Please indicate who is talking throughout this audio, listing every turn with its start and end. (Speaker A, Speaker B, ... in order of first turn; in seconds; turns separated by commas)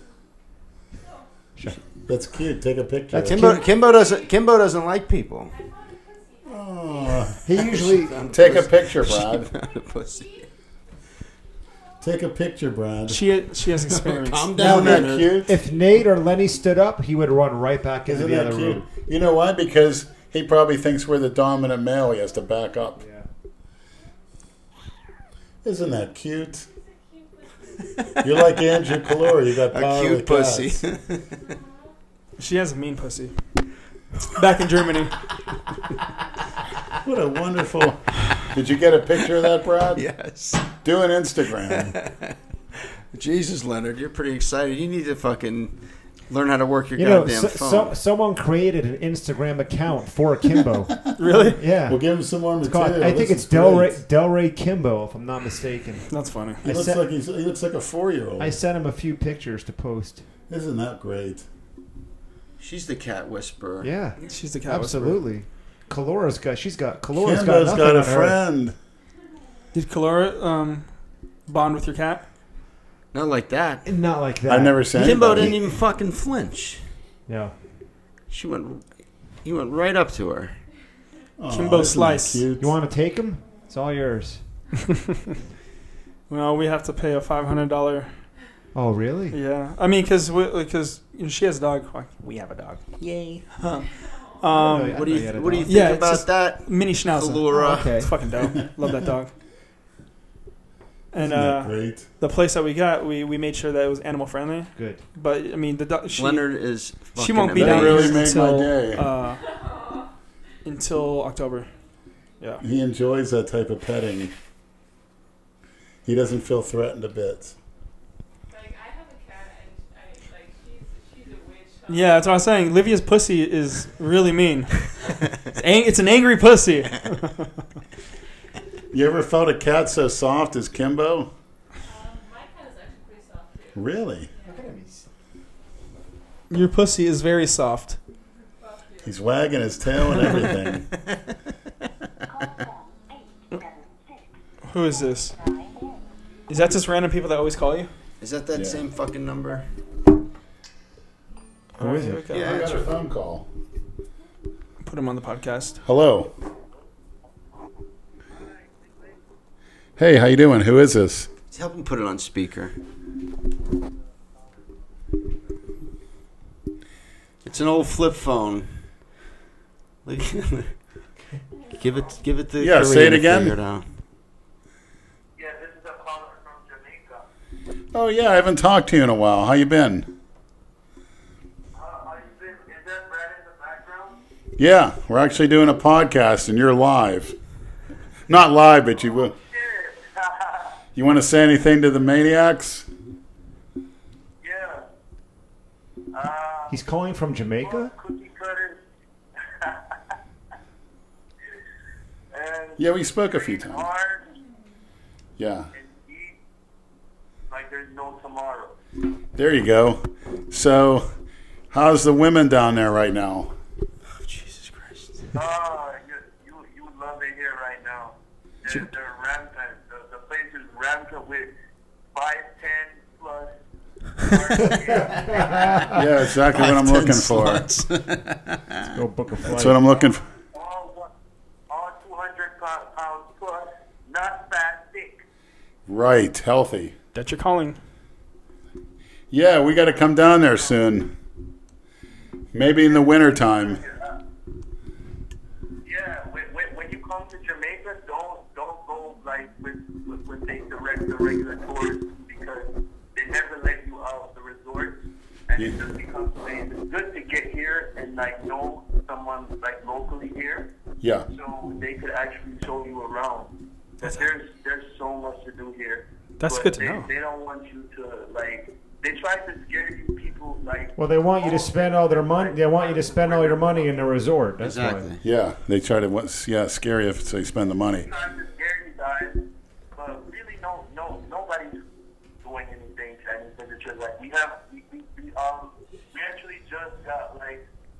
Speaker A: 2.0-3.5, Speaker B: 3.1-3.6, Speaker C: 3.3-5.5, Speaker D: 3.5-4.5, Speaker D: 5.5-8.6, Speaker A: 6.5-7.6, Speaker B: 7.4-8.2, Speaker C: 7.5-10.3, Speaker A: 8.3-9.5, Speaker D: 9.6-10.4, Speaker A: 12.0-13.3, Speaker E: 13.1-14.5, Speaker C: 13.8-15.3, Speaker A: 14.5-15.6, Speaker B: 14.6-18.9, Speaker A: 18.1-23.0, Speaker B: 23.0-23.2, Speaker A: 25.6-26.7, Speaker D: 26.7-28.8, Speaker A: 28.2-30.8, Speaker C: 29.7-31.3, Speaker E: 32.4-33.3, Speaker E: 34.2-35.1, Speaker A: 37.0-40.0, Speaker C: 39.9-40.8, Speaker A: 40.8-41.9, Speaker C: 41.6-42.3, Speaker C: 43.1-47.9, Speaker B: 46.9-52.0, Speaker E: 51.2-51.6, Speaker A: 51.9-54.0, Speaker B: 52.6-56.1, Speaker E: 56.1-56.6, Speaker B: 56.6-57.0, Speaker A: 56.6-58.5, Speaker B: 58.4-60.2, Speaker A: 60.5-61.5, Speaker C: 62.6-63.9, Speaker B: 63.8-68.4, Speaker E: 64.2-65.2, Speaker A: 67.1-68.8, Speaker E: 69.7-70.9, Speaker E: 71.5-72.2, Speaker C: 73.1-73.9, Speaker B: 73.8-75.6, Speaker A: 74.5-75.6, Speaker C: 74.9-76.8, Speaker B: 77.3-77.5, Speaker C: 78.3-78.9, Speaker C: 79.4-80.5, Speaker A: 81.4-82.7, Speaker E: 81.5-82.4, Speaker B: 82.6-84.4, Speaker E: 86.3-88.2, Speaker B: 88.7-89.4, Speaker E: 89.3-92.8, Speaker B: 93.0-93.4, Speaker E: 93.5-93.9, Speaker D: 93.8-94.8, Speaker E: 94.4-95.1, Speaker B: 94.5-95.8, Speaker C: 94.9-98.0, Speaker E: 95.7-99.3, Speaker B: 97.5-98.1, Speaker E: 101.1-106.5, Speaker A: 101.2-102.0, Speaker B: 104.8-105.0, Speaker C: 106.2-108.2, Speaker E: 107.1-109.4, Speaker A: 107.5-109.1, Speaker D: 109.3-110.1, Speaker E: 110.6-111.7, Speaker A: 112.6-114.3, Speaker A: 116.0-117.5, Speaker D: 118.5-122.6, Speaker E: 121.9-124.9, Speaker E: 125.5-127.5, Speaker A: 128.9-131.3, Speaker D: 131.8-134.6, Speaker A: 133.7-134.3, Speaker B: 134.4-135.1, Speaker E: 136.5-138.0, Speaker D: 138.6-139.5, Speaker A: 139.0-140.9, Speaker E: 144.6-145.4, Speaker E: 146.5-147.9, Speaker C: 148.2-149.7, Speaker A: 148.5-148.8, Speaker B: 151.8-152.3, Speaker E: 151.8-152.7, Speaker C: 152.3-152.9, Speaker A: 152.4-153.5, Speaker E: 154.8-155.8, Speaker A: 155.8-156.3, Speaker A: 160.0-161.3, Speaker C: 161.5-162.7, Speaker C: 167.4-168.7, Speaker C: 170.0-170.7, Speaker C: 171.8-173.8, Speaker A: 172.6-173.6, Speaker F: 175.4-177.3, Speaker A: 177.9-180.1, Speaker F: 181.7-184.2, Speaker A: 184.6-187.3, Speaker A: 188.3-189.3, Speaker F: 189.1-190.8, Speaker A: 190.9-192.9, Speaker F: 194.4-194.9, Speaker F: 196.1-196.8, Speaker B: 196.7-197.9, Speaker F: 197.6-198.8, Speaker F: 199.6-200.0, Speaker F: 202.3-204.3, Speaker A: 202.8-203.8, Speaker A: 205.4-205.7, Speaker F: 205.7-206.4, Speaker F: 207.5-208.8, Speaker A: 209.4-211.1, Speaker A: 211.7-213.5, Speaker C: 214.1-215.3, Speaker F: 215.3-221.5, Speaker F: 222.1-223.5, Speaker F: 224.2-225.9, Speaker B: 224.7-226.0, Speaker A: 225.9-227.7, Speaker C: 226.4-228.8, Speaker B: 228.9-229.8, Speaker A: 229.4-230.2, Speaker F: 229.9-231.1, Speaker F: 231.7-235.2, Speaker A: 235.9-236.9, Speaker E: 237.1-237.8, Speaker A: 239.3-241.1, Speaker A: 242.5-243.8, Speaker F: 242.9-244.2, Speaker F: 245.8-260.7, Speaker A: 261.0-261.3, Speaker F: 261.3-274.1, Speaker E: 266.4-267.1, Speaker B: 271.0-275.1, Speaker C: 274.6-275.2, Speaker A: 275.2-278.1, Speaker F: 278.0-279.4, Speaker F: 279.9-281.8, Speaker F: 282.4-287.6